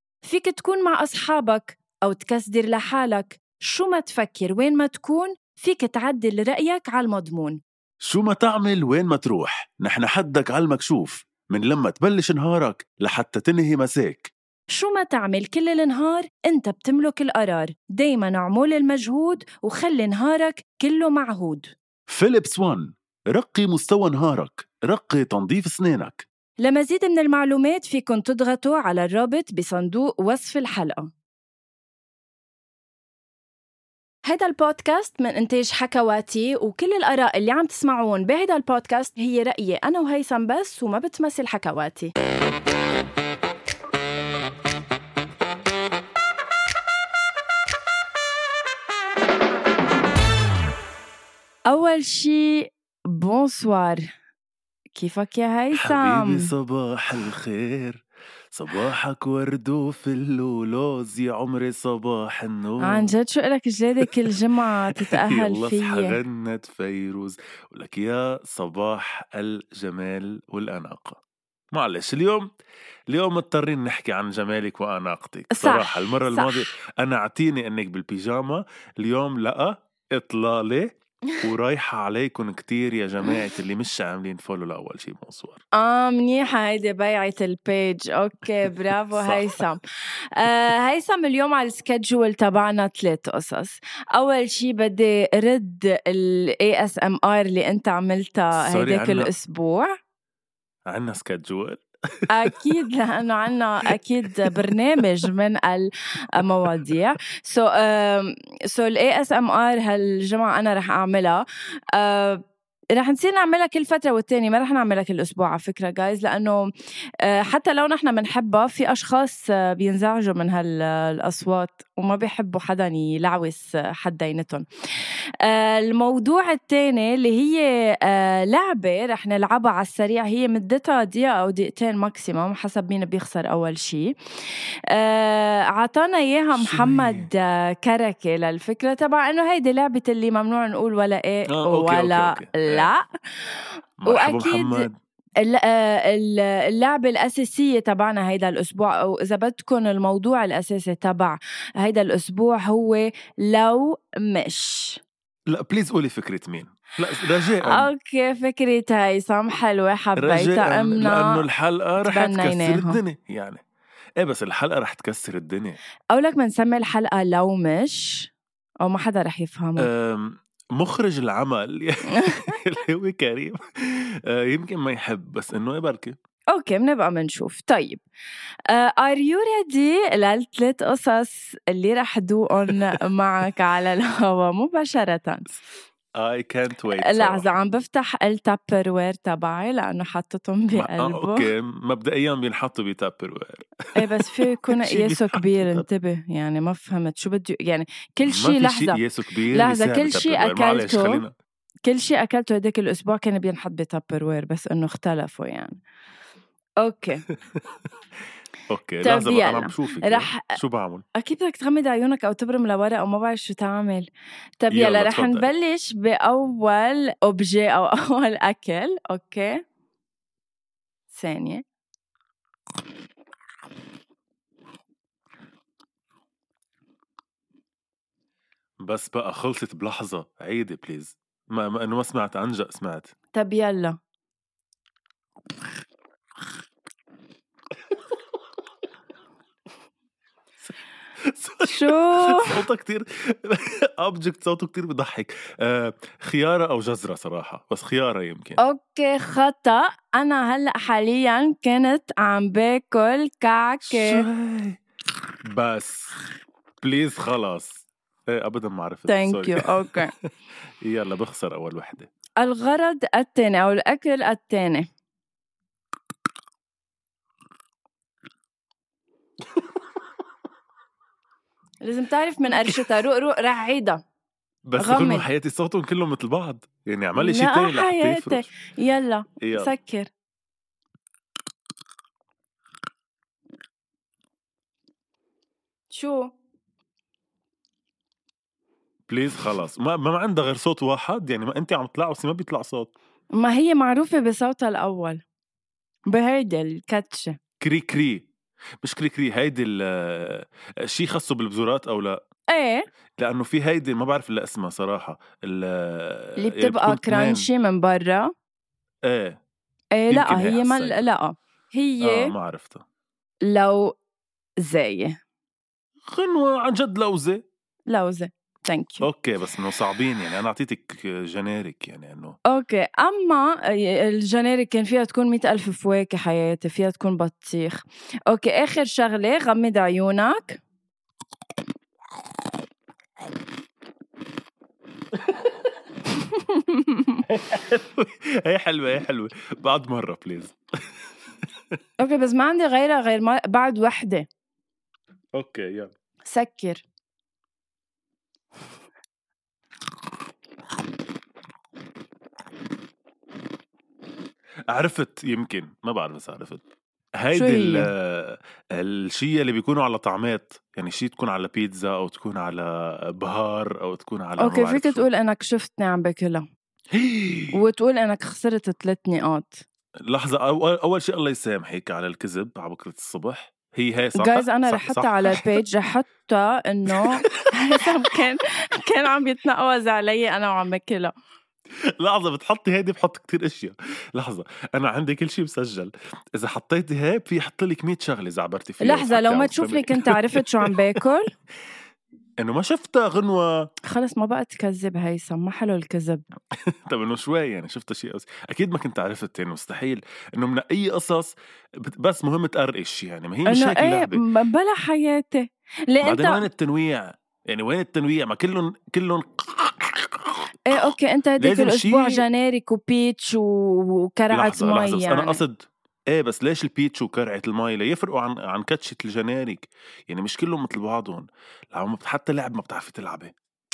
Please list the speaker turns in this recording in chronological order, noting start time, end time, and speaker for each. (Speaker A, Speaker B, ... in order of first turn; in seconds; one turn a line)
Speaker A: 0.2-7.6
Speaker B: 8.0-14.3
Speaker A: 14.7-21.7
Speaker B: 22.1-26.3
Speaker A: 26.6-31.1
Speaker A: 34.2-42.1
Speaker A: 51.7-54.0
Speaker A: 55.0-56.5
Speaker B: 55.7-63.1
Speaker A: 62.8-66.2
Speaker B: 64.0-64.3
Speaker B: 65.0-71.2
Speaker B: 71.7-72.5
Speaker B: 73.1-85.6
Speaker A: 75.5-76.7
Speaker A: 85.8-89.8
Speaker B: 89.1-89.6
Speaker A: 90.3-99.9
Speaker B: 98.6-99.3
Speaker B: 100.9-102.6
Speaker A: 102.3-111.4
Speaker B: 104.4-105.0
Speaker B: 106.7-107.0
Speaker A: 112.0-112.4
Speaker A: 113.0-116.7
Speaker A: 117.2-144.9
Speaker B: 136.6-137.3
Speaker B: 141.5-142.9
Speaker B: 144.0-144.9
Speaker A: 145.4-155.0
Speaker B: 155.5-157.9
Speaker A: 157.6-161.4
Speaker B: 160.2-163.6
Speaker A: 162.0-163.0
Speaker B: 164.2-165.8
Speaker A: 166.1-168.3
Speaker A: 168.8-169.9
Speaker B: 169.8-176.2
Speaker A: 172.2-172.5
Speaker A: 176.5-178.0
Speaker A: 178.7-185.5
Speaker B: 186.2-187.5
Speaker A: 187.0-191.5
Speaker B: 190.8-195.8
Speaker A: 194.0-199.0
Speaker B: 198.3-201.3
Speaker A: 199.5-201.2
Speaker A: 201.8-205.8
Speaker A: 206.8-207.2
Speaker B: 207.3-207.6
Speaker B: 208.7-211.0
Speaker A: 209.0-210.6
Speaker A: 211.2-214.1
Speaker A: 214.6-219.6
Speaker B: 214.7-215.5
Speaker A: 221.1-221.6
Speaker B: 228.8-233.1
Speaker A: 233.3-234.0
Speaker B: 241.3-248.6
Speaker A: 241.7-242.6
Speaker A: 248.6-254.2
Speaker B: 253.9-254.8
Speaker B: 255.4-256.1
Speaker B: 256.8-260.0
Speaker A: 259.1-260.1
Speaker B: 260.8-262.1
Speaker A: 262.4-264.9
Speaker A: 271.8-274.0
Speaker B: 274.7-278.5
Speaker A: 274.8-275.3
Speaker A: 277.2-280.1
Speaker B: 279.4-279.7
Speaker A: 285.9-286.3
Speaker B: 289.1-292.9
Speaker A: 293.3-295.2
Speaker A: 296.1-297.4
Speaker B: 297.6-298.3
Speaker B: 298.8-302.2
Speaker A: 302.5-302.8
Speaker B: 303.2-307.5
Speaker A: 306.4-308.3
Speaker B: 309.1-309.4
Speaker A: 309.9-312.3
Speaker B: 310.1-311.1
Speaker B: 312.0-312.8
Speaker A: 313.4-313.9
Speaker A: 314.6-315.2
Speaker B: 316.1-317.4
Speaker A: 317.9-319.1
Speaker B: 319.0-322.4
Speaker A: 322.5-330.6
Speaker B: 335.3-335.5
Speaker A: 336.3-337.2
Speaker B: 337.3-340.6
Speaker A: 342.0-344.3
Speaker B: 345.3-345.9
Speaker A: 346.3-346.8
Speaker B: 354.7-356.6
Speaker B: 357.2-365.1
Speaker A: 357.3-357.9
Speaker A: 364.4-366.4
Speaker B: 366.9-367.6
Speaker A: 367.5-369.6
Speaker B: 370.1-375.5
Speaker A: 374.2-381.1
Speaker B: 376.9-377.4
Speaker B: 382.0-390.8
Speaker A: 388.8-391.3
Speaker B: 392.4-393.7
Speaker A: 393.9-396.2
Speaker B: 396.7-404.2
Speaker A: 403.5-406.4
Speaker B: 406.0-412.2
Speaker A: 410.7-415.4
Speaker B: 414.3-423.3